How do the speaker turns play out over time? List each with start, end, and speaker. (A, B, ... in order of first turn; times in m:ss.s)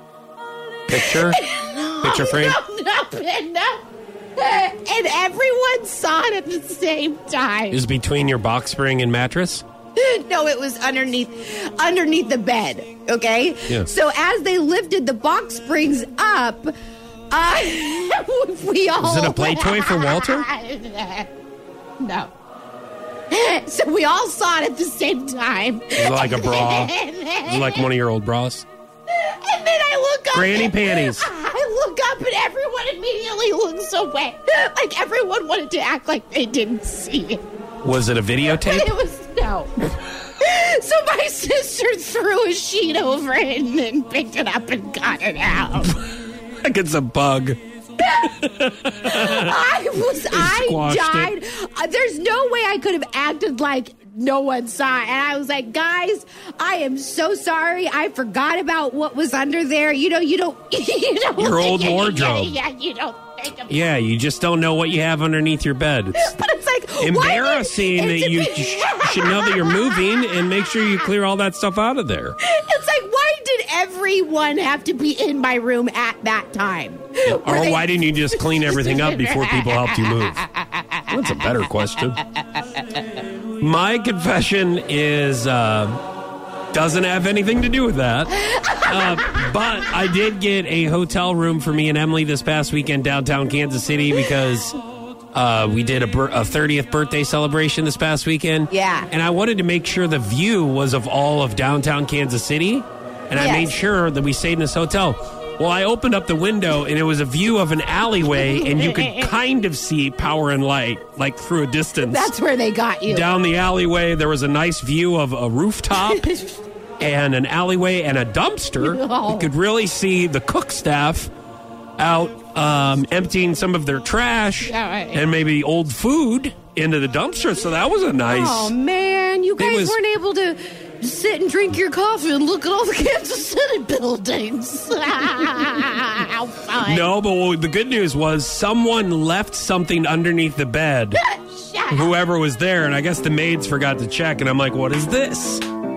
0:00.9-0:01.4 A
0:00.9-0:03.8 B
0:02.0-0:02.6 A
0:04.4-0:07.8 B
0:07.7-0:09.6 A
0:10.0-0:16.7 B
0:17.3-0:21.3 B
0:19.0-0:20.4 A
0:22.0-0:22.3 B
0:23.3-0:27.9 B
0:25.9-0:26.9 A
0:27.4-0:28.6 A
0:29.1-0:37.4 B
0:30.3-0:31.2 A
0:37.8-0:38.9 A
0:38.5-0:46.0 B
0:46.6-0:47.6 A
0:48.0-0:48.3 B
0:48.2-0:49.5 A
0:49.0-1:03.9 B
0:50.2-0:51.3 A
1:01.4-1:02.5 A
1:03.7-1:06.3 A
1:06.1-1:11.1 B
1:07.0-1:12.4 A
1:12.4-1:21.6 B
1:17.3-1:20.4 A
1:21.1-1:22.2 A
1:23.6-1:26.0 A
1:26.7-1:34.8 A
1:28.4-1:29.5 B
1:35.3-1:52.3 A
1:38.7-1:39.1 B
1:43.4-1:43.7 B
1:48.2-1:49.3 B
1:52.0-1:53.3 B
1:53.0-1:56.3 A
1:55.9-1:56.5 B
1:57.0-2:01.3 A
1:58.8-1:59.5 B
2:02.0-2:08.7 A
2:04.6-2:05.2 B
2:08.3-2:17.1 B
2:09.6-2:10.0 A
2:16.8-2:21.2 A
2:21.1-2:22.1 B
2:21.9-2:25.6 A